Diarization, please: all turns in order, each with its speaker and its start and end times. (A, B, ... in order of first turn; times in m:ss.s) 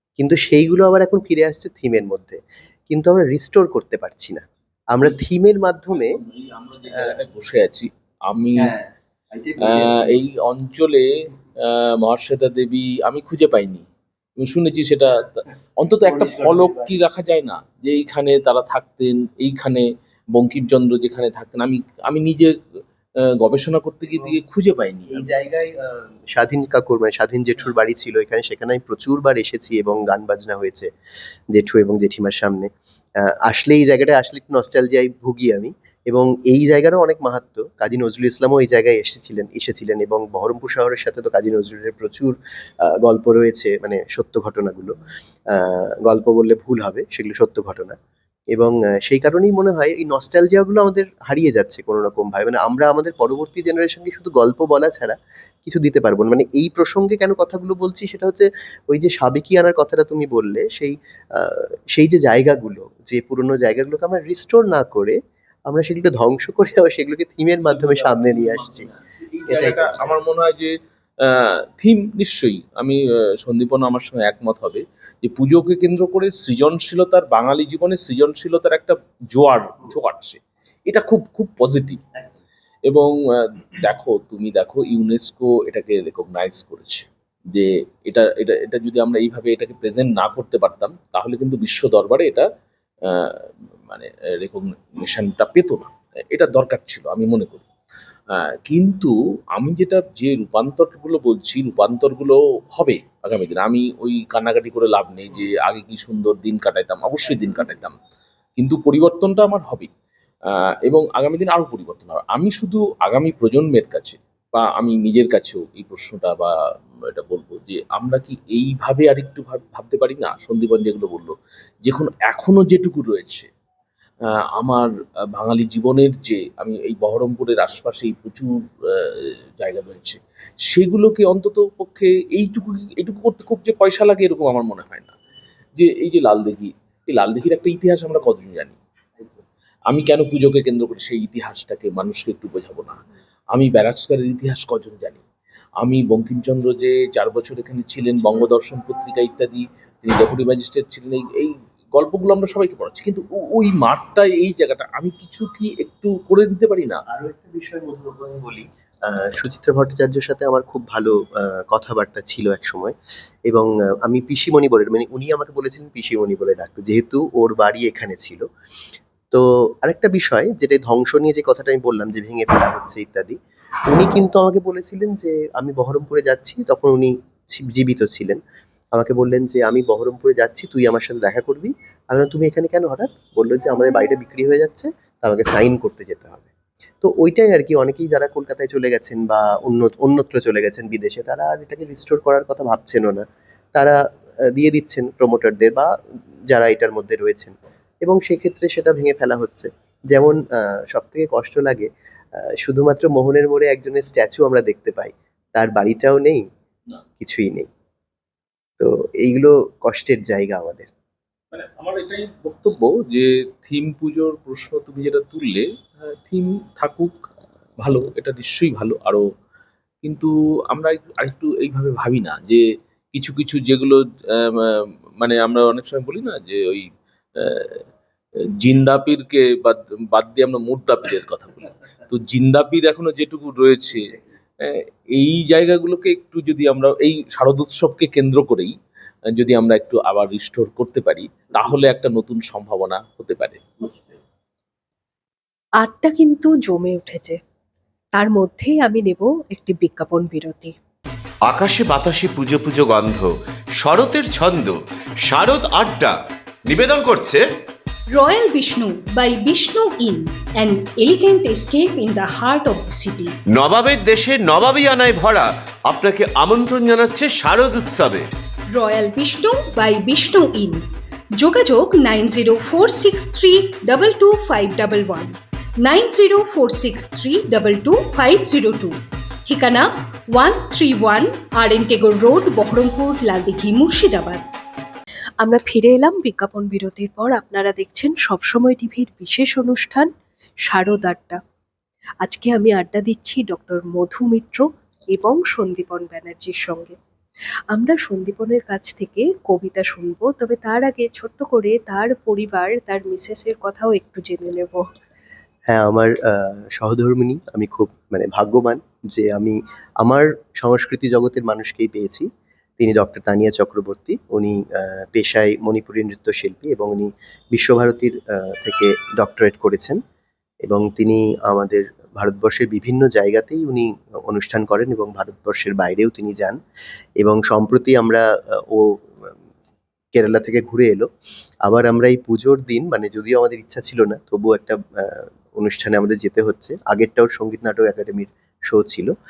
0:00.2-0:06.2 A
0:05.9-0:08.7 B
0:08.6-0:10.2 A
0:09.6-0:11.1 B
0:11.6-0:13.8 B
0:14.4-0:22.6 B
0:16.0-0:16.9 A
0:23.2-0:25.3 B
0:25.1-0:30.9 A
0:31.5-0:32.7 A
0:33.2-0:45.0 A
0:45.5-0:48.0 A
0:48.5-1:08.9 A
1:07.7-1:22.0 B
1:09.5-1:10.1 A
1:22.9-1:32.4 B
1:33.0-1:37.6 B
1:38.3-1:48.0 B
1:48.6-1:49.9 B
1:50.5-1:56.5 B
1:57.1-2:03.5 B
2:04.3-2:15.1 B
2:15.8-2:18.8 B
2:19.9-2:23.0 B
2:23.5-2:25.2 B
2:25.8-2:37.0 B
2:37.1-2:42.9 A
2:43.5-2:48.4 A
2:49.3-2:53.4 A
2:53.9-2:58.4 A
2:58.9-3:06.5 A
3:07.0-3:14.0 A
3:14.5-3:15.9 A
3:16.5-3:26.4 A
3:27.2-3:27.7 A
3:28.8-3:30.9 A
3:31.5-3:37.1 B
3:37.8-3:39.2 B
3:40.0-3:47.8 B
3:48.6-3:58.7 B
3:59.4-4:04.0 B
4:05.8-4:07.4 C
4:08.1-4:10.7 C
4:11.5-4:13.3 D
4:13.8-4:16.1 D
4:16.7-4:17.4 D
4:18.1-4:23.3 E
4:23.5-4:28.2 D
4:28.7-4:30.8 E
4:31.4-4:44.4 E
4:45.4-4:50.1 C
4:50.7-4:51.4 C
4:52.2-4:56.9 C
4:57.7-5:04.9 C
5:05.7-5:12.3 A
5:12.8-5:20.0 A
5:20.6-5:26.6 A
5:27.2-5:29.3 A
5:30.1-5:31.1 A
5:31.6-5:39.1 A